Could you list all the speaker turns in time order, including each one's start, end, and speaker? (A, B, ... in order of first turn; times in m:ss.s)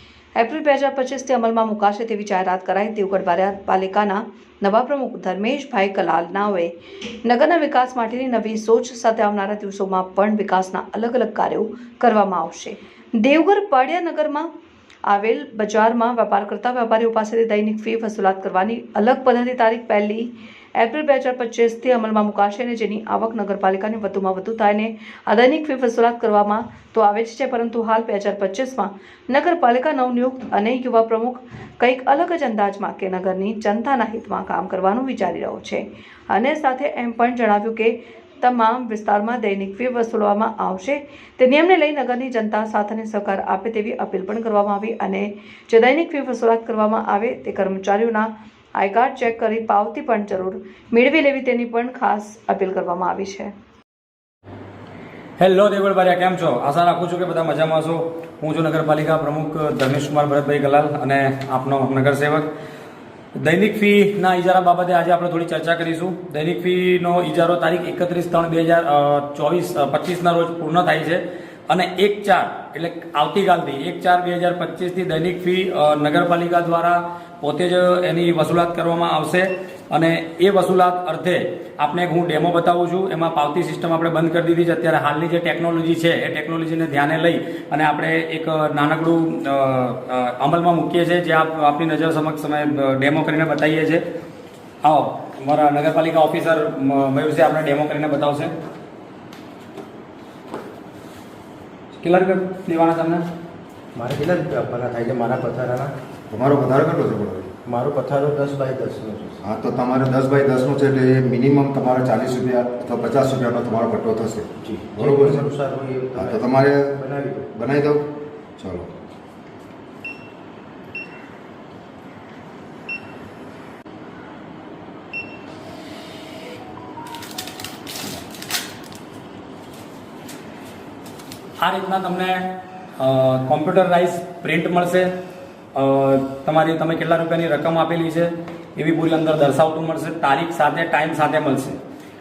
0:00.4-0:06.7 A
0:07.2-0:14.5 A
0:15.1-0:53.5 A
0:55.4-1:02.5 B
1:03.4-1:34.0 B
1:34.8-1:38.5 B
1:42.0-1:43.2 B
1:43.9-1:45.9 C
1:46.3-1:47.5 D
1:47.6-1:49.4 C
1:49.4-1:55.5 D
1:54.6-1:57.5 C
1:56.2-1:57.0 D
1:57.5-1:58.0 D
1:58.6-1:58.9 D
2:11.6-2:15.1 B
2:15.7-2:21.8 B